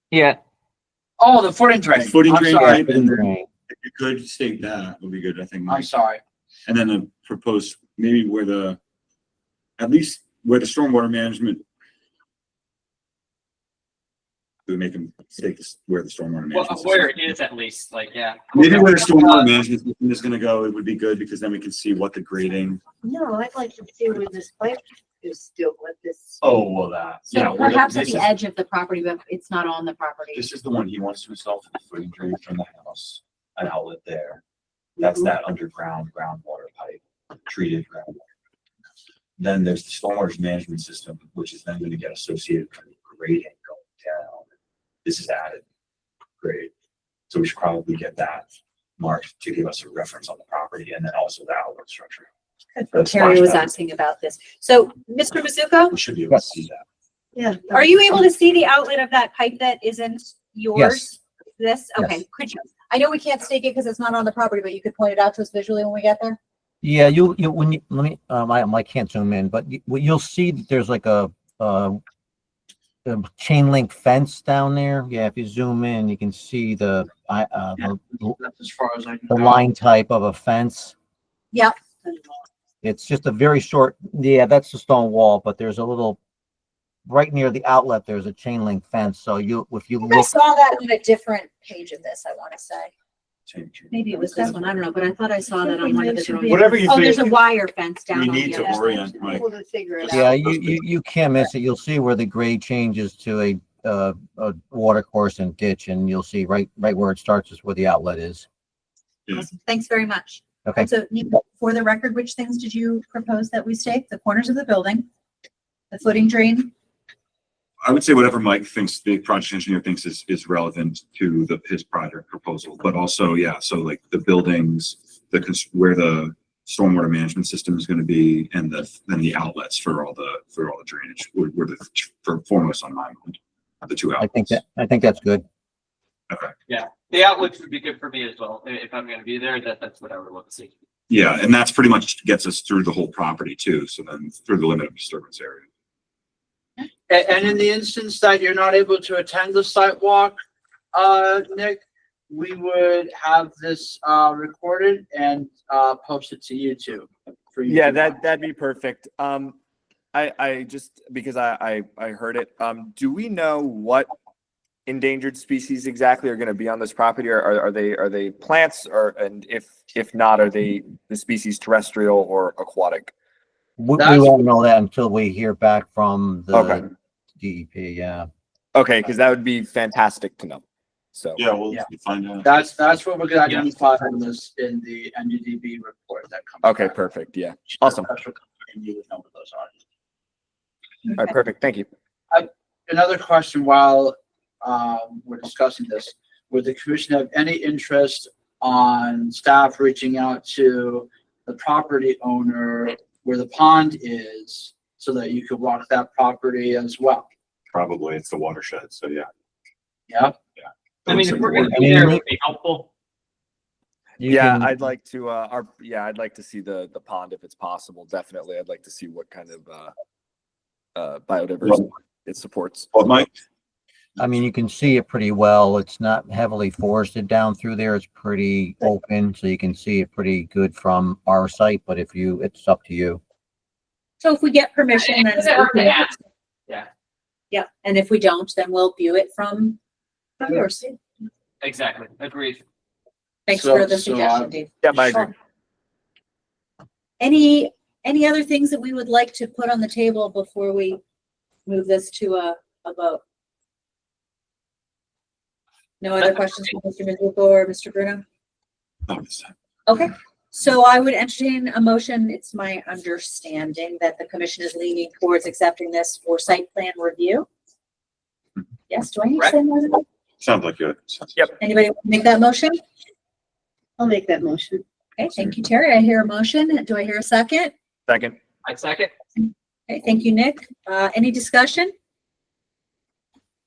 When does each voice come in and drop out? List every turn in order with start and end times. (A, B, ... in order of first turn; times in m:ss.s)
0:00.1-0:00.4 A
0:01.2-0:03.2 B
0:02.0-0:03.1 C
0:02.6-0:03.5 D
0:03.7-0:05.9 C
0:05.7-0:06.2 B
0:06.7-0:08.8 C
0:09.8-0:11.6 C
0:14.7-0:17.3 C
0:16.5-0:19.5 A
0:18.5-0:22.8 C
0:23.0-0:26.4 E
0:26.4-0:28.2 C
0:27.3-0:30.5 F
0:30.3-0:34.4 C
0:35.0-0:38.3 C
0:39.4-0:44.4 C
0:45.0-0:45.6 C
0:46.4-0:46.7 C
0:47.3-0:48.5 C
0:49.0-0:52.3 C
0:52.8-0:56.0 F
0:52.9-0:53.6 C
0:55.9-0:56.8 C
0:57.4-0:57.8 E
0:57.7-1:06.4 F
1:00.8-1:01.2 D
1:06.8-1:12.0 D
1:13.0-1:18.4 D
1:17.8-1:19.6 B
1:19.3-1:20.9 D
1:22.0-1:22.3 E
1:22.8-1:26.2 D
1:27.1-1:30.3 D
1:30.1-1:32.9 F
1:33.5-1:34.3 C
1:33.9-1:38.8 F
1:35.6-1:37.3 E
1:36.5-1:37.2 C
1:38.1-1:39.4 C
1:38.4-1:40.3 E
1:40.0-1:40.8 C
1:40.1-1:48.5 D
1:49.3-1:55.1 F
1:55.9-1:56.7 F
1:57.8-2:14.6 C
2:14.2-2:15.4 D
2:16.3-2:16.6 C
2:16.7-2:20.7 A
2:21.1-2:25.7 C
2:27.1-2:30.4 B
2:30.9-2:38.2 B
2:37.7-2:39.6 G
2:40.1-2:44.1 G
2:44.9-2:53.1 G
2:53.8-2:58.3 D
2:54.0-2:54.3 B
2:56.5-2:56.9 G
2:58.7-3:00.6 G
3:01.1-3:01.4 G
3:01.4-3:02.5 C
3:01.6-3:01.9 B
3:02.4-3:07.0 B
3:06.6-3:08.1 G
3:07.7-3:09.7 B
3:11.1-3:11.9 G
3:12.3-3:27.3 B
3:27.7-3:29.3 C
3:30.1-3:30.4 B
3:30.6-3:32.0 C
3:31.1-3:32.9 A
3:31.6-3:32.2 D
3:34.2-3:34.7 D
3:34.2-3:39.9 G
3:41.0-3:43.3 G
3:42.9-3:43.3 C
3:44.2-3:53.2 D
3:54.2-3:56.2 F
3:55.1-3:56.1 A
3:57.5-3:59.8 F
4:00.4-4:01.0 F
4:01.6-4:02.6 A
4:03.5-4:05.3 F
4:03.5-4:04.5 B
4:04.8-4:05.3 G
4:07.2-4:11.0 F
4:11.6-4:13.2 F
4:16.0-4:18.2 F
4:19.1-4:19.5 C
4:19.9-4:27.5 F
4:28.9-4:30.0 F
4:30.4-4:31.4 C
4:31.6-4:32.8 F
4:34.0-4:34.8 E
4:35.2-4:37.7 F
4:38.1-4:38.4 G
4:38.6-4:39.1 A
4:39.9-4:41.9 F